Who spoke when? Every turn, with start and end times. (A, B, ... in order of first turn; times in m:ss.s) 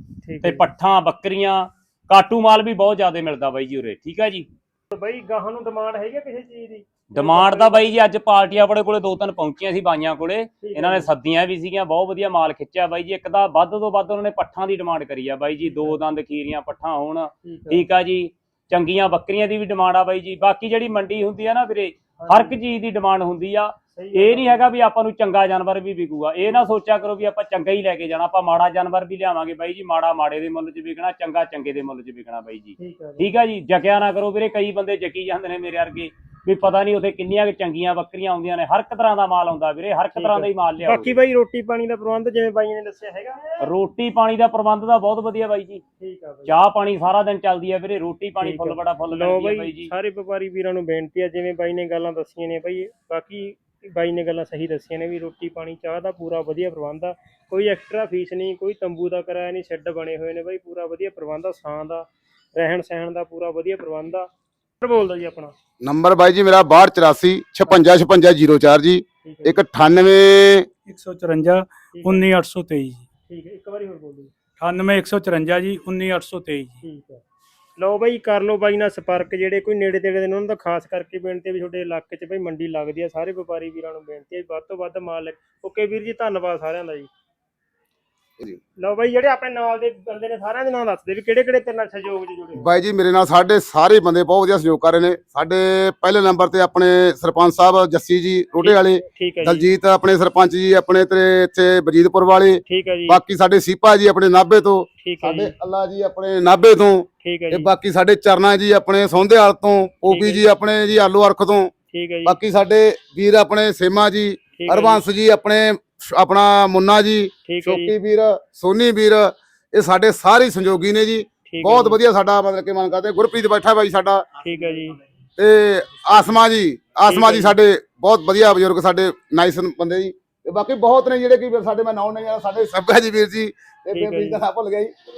0:00.2-0:00.6 A
0:00.4-0:04.5 B
0:04.9-0:07.9 A
0:07.1-0:41.2 B
0:10.6-0:11.1 A
0:15.6-0:16.0 A
0:17.4-0:17.9 A
0:22.2-0:22.6 A
0:24.0-0:24.6 A
0:32.8-0:33.3 A
0:40.2-0:43.6 A
0:43.6-0:45.8 B
0:46.0-0:46.5 A
0:46.5-0:49.9 B
0:48.4-1:04.3 A
1:04.8-1:05.5 A
1:05.8-1:10.7 C
1:09.2-1:09.6 A
1:10.9-1:13.1 D
1:11.9-1:12.3 A
1:13.3-1:14.3 A
1:14.6-1:16.8 D
1:16.8-1:17.2 A
1:17.8-1:27.1 A
1:28.8-1:32.7 A
1:32.6-1:51.7 C
1:38.6-1:39.7 A
1:42.7-1:43.2 A
1:45.0-1:45.5 A
1:47.2-1:47.7 A
1:50.1-1:50.5 A
1:51.9-1:52.4 A
1:52.3-2:04.2 C
1:54.6-1:55.0 A
1:57.5-1:58.0 A
2:01.5-2:02.0 A
2:04.4-2:05.0 A
2:05.4-2:14.9 C
2:07.1-2:07.6 A
2:13.9-2:14.4 A